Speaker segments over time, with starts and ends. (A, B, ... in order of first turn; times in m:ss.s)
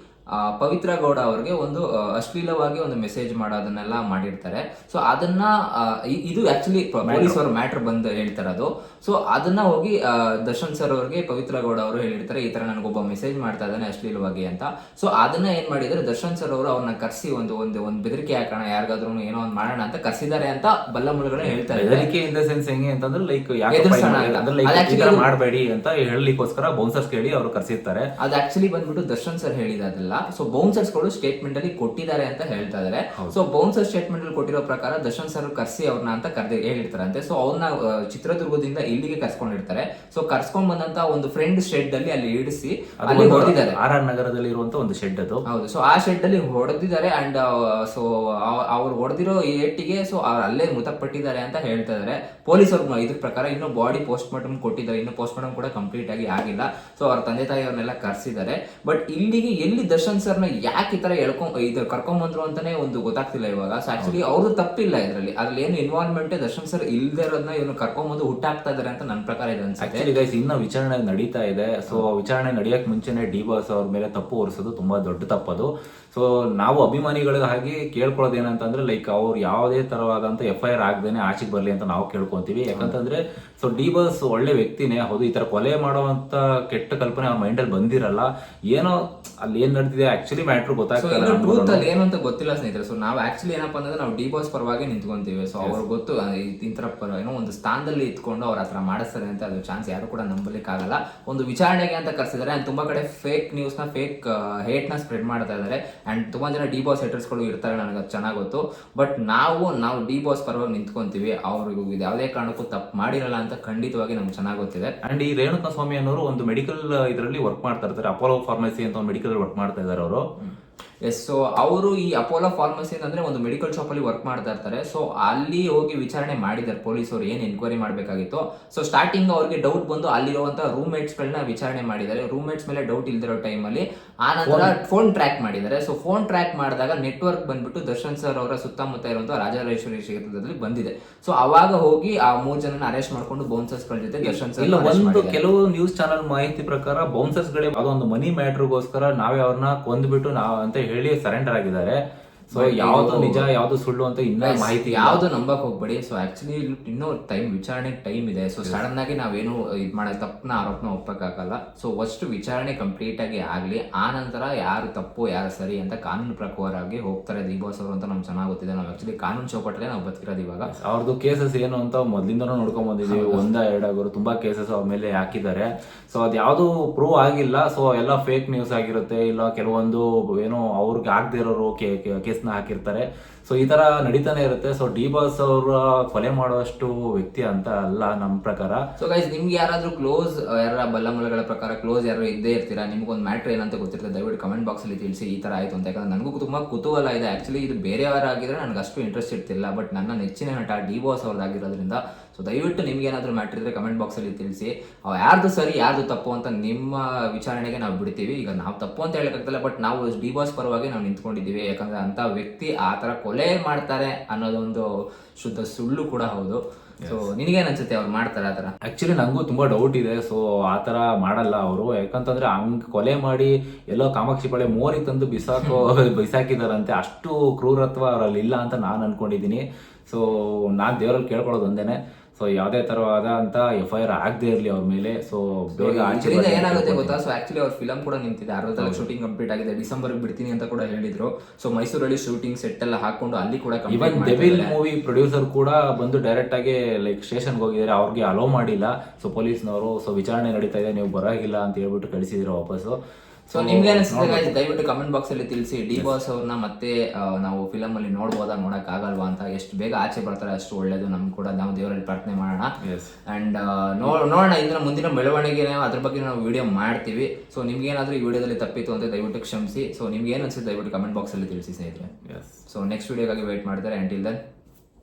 0:00.3-0:22.1 A
0:07.0-0:07.4 B
0:21.4-0:28.0 B
0:23.7-0:25.2 A
0:28.2-0:43.8 A
0:43.0-0:45.4 B
0:45.5-1:10.0 A
1:09.8-1:31.8 B
1:31.0-1:54.9 A
1:55.0-2:00.2 B
2:00.4-2:25.4 A
2:14.4-2:14.7 B
2:24.2-2:32.0 B
2:32.5-2:35.2 B
2:32.5-2:33.4 A
2:34.4-2:50.7 A
2:50.7-3:08.8 B
2:53.0-2:53.4 A
3:09.0-3:38.7 A
3:38.8-3:57.2 B
3:55.7-4:04.7 A
3:58.8-3:59.1 B
4:03.9-4:13.0 B
4:13.5-4:14.5 B
4:13.5-4:22.7 A
4:22.8-4:23.2 B
4:23.2-4:32.1 A
4:32.2-4:32.6 B
4:32.6-4:34.4 A